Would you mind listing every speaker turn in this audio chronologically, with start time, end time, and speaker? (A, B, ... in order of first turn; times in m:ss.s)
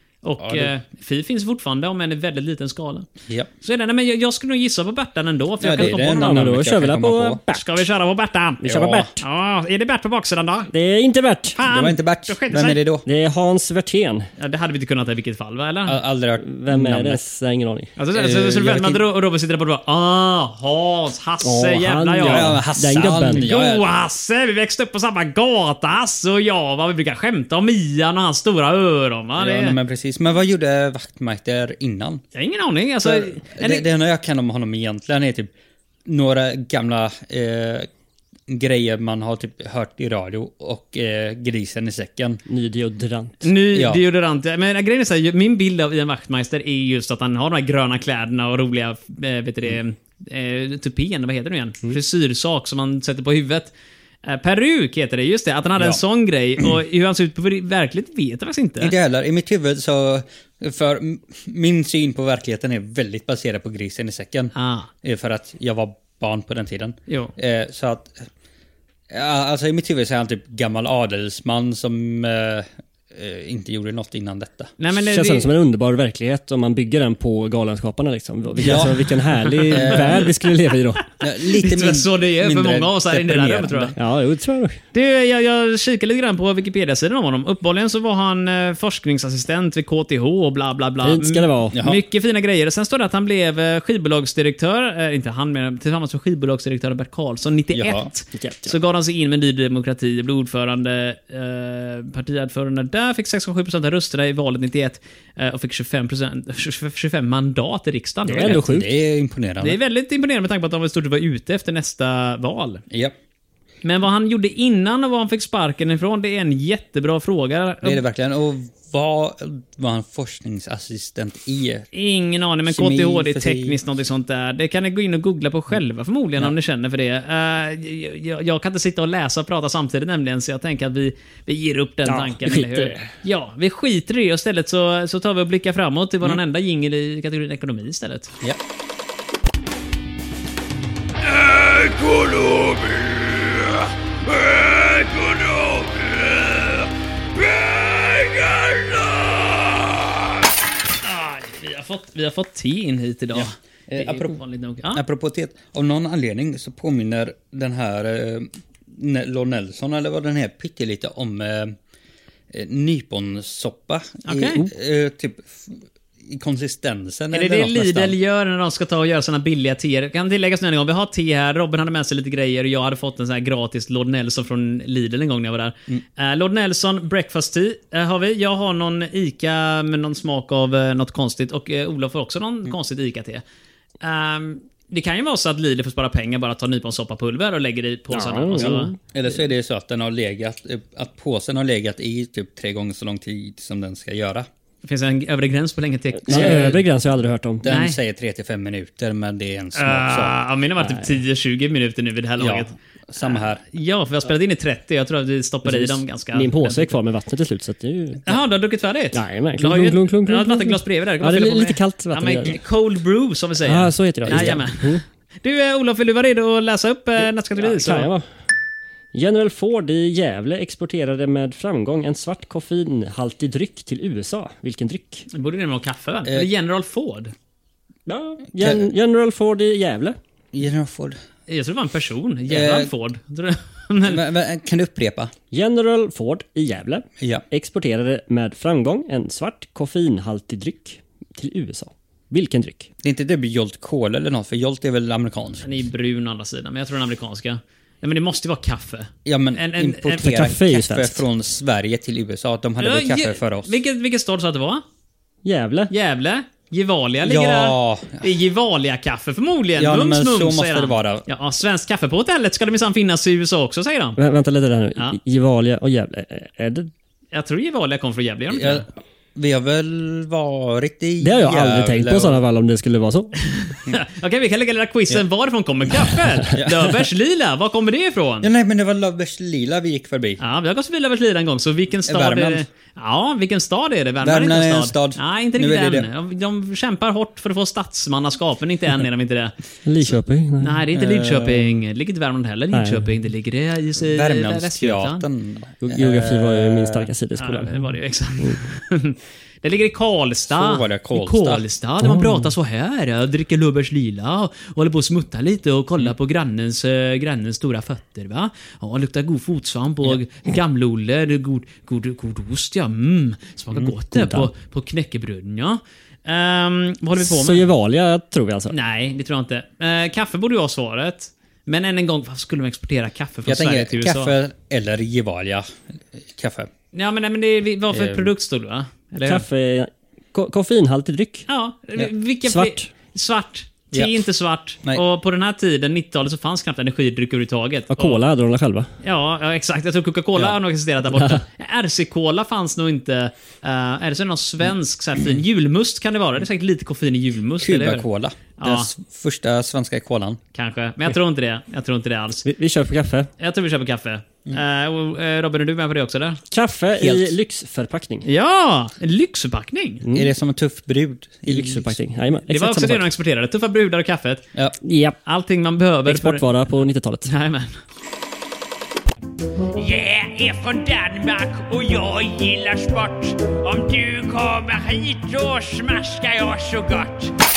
0:00.2-0:03.1 A
0:00.4-0:00.7 B
0:03.6-0:06.4 A
0:05.6-0:07.4 B
0:05.8-0:07.8 C
0:07.5-0:10.7 A
0:08.6-0:09.2 C
0:08.6-0:09.1 B
0:10.7-0:11.6 C
0:11.6-0:12.8 A
0:11.6-0:13.0 B
0:13.0-0:14.3 C
0:14.4-0:16.0 A
0:15.8-0:17.2 B
0:16.4-0:17.9 C
0:18.0-0:22.6 A
0:18.1-0:19.0 B
0:21.4-0:23.4 C
0:22.2-0:23.8 B
0:23.3-0:29.8 A
0:29.4-0:32.2 B
0:32.3-0:33.8 A
0:33.0-0:35.5 B
0:36.0-0:37.9 B
0:38.5-0:42.4 B
0:42.5-0:43.5 C
0:43.4-0:53.7 A
0:43.7-0:44.0 B
0:54.2-0:58.9 A
0:58.8-1:08.3 B
1:04.6-1:04.9 A
1:09.1-1:14.7 B
1:14.8-1:15.5 A
1:15.0-1:21.0 C
1:18.6-1:19.1 B
1:19.5-1:20.0 A
1:19.7-1:20.3 B
1:21.2-1:24.0 B
1:21.5-1:24.0 A
1:24.0-1:24.8 C
1:24.9-1:48.6 A
1:31.0-1:31.8 C
1:31.7-1:32.0 B
1:37.7-1:38.1 B
1:38.3-1:38.7 C
1:48.2-1:48.9 C
1:48.4-1:49.8 B
1:49.6-1:52.8 A
1:52.9-1:53.1 B
1:53.8-1:58.0 A
1:57.8-2:01.9 B
2:01.9-2:18.3 A
2:02.7-2:03.8 B
2:12.0-2:13.1 C
2:21.3-2:30.1 B
2:31.0-2:35.0 A
2:33.3-2:34.4 B
2:34.9-2:41.8 B
2:42.5-2:48.2 B
2:44.2-2:44.6 A
2:47.3-3:03.4 A
3:04.0-3:08.9 A
3:08.1-3:09.0 C
3:08.6-3:14.5 B
3:14.8-3:16.8 A
3:16.2-3:17.6 C
3:16.3-3:16.7 B
3:17.6-3:20.4 B
3:17.6-3:18.0 A
3:19.7-3:22.7 A
3:20.8-3:21.2 C
3:22.4-3:23.6 B
3:23.2-3:27.0 A
3:25.6-3:28.3 C
3:28.2-3:38.1 A
3:29.1-3:32.6 C
3:33.6-3:35.0 C
3:34.2-3:34.6 B
3:37.6-3:38.2 C
3:39.1-3:45.2 C
3:45.3-3:47.3 A
3:48.1-3:50.2 C
3:48.6-3:48.8 B
3:50.5-3:51.2 B
3:51.5-3:54.2 A
3:52.5-3:52.9 B
3:54.0-3:55.3 B
3:55.5-4:02.9 C
3:57.2-3:57.4 B
4:03.0-4:05.7 B
4:05.6-4:10.3 A
4:09.2-4:13.7 B
4:10.2-4:11.2 C
4:12.8-4:14.8 A
4:15.4-4:15.9 C
4:15.9-4:24.2 A
4:17.2-4:18.3 B
4:19.8-4:21.2 B
4:24.2-4:26.9 C
4:27.3-4:28.8 A
4:28.5-4:32.4 B
4:31.2-4:33.4 C
4:33.5-4:38.5 A
4:36.5-4:37.0 B
4:38.4-4:40.4 B
4:40.4-4:49.5 A
4:42.0-4:42.6 B
4:44.2-4:46.1 B
4:49.8-4:50.8 C
4:50.6-4:55.2 A
4:50.9-4:51.8 B
4:52.7-4:53.1 C
4:54.0-4:57.1 B
4:55.8-4:58.6 C
4:57.4-5:17.6 A
5:00.5-5:01.6 B
5:02.0-5:02.5 C
5:14.1-5:14.5 C
5:17.2-5:18.7 C
5:18.7-5:24.3 A
5:23.4-5:26.7 B
5:26.9-5:29.4 A
5:27.9-5:28.3 B
5:29.2-5:31.5 C
5:31.5-5:38.2 A
5:32.4-5:32.9 C
5:37.9-5:38.9 C
5:39.0-5:48.0 A
5:41.1-5:41.4 C
5:47.6-5:50.4 B
5:48.6-5:48.9 A
5:50.5-5:52.4 A
5:52.4-5:53.3 C
5:53.4-5:56.4 A
5:56.5-5:58.3 C
5:57.0-5:57.3 B
5:58.2-6:00.0 A
6:00.0-6:00.3 C
6:00.1-6:02.0 B
6:01.5-6:03.1 C
6:02.5-6:04.4 A
6:04.8-6:05.2 C
6:05.2-6:06.4 A
6:06.0-6:07.3 C
6:07.3-6:07.8 A
6:09.7-6:17.3 A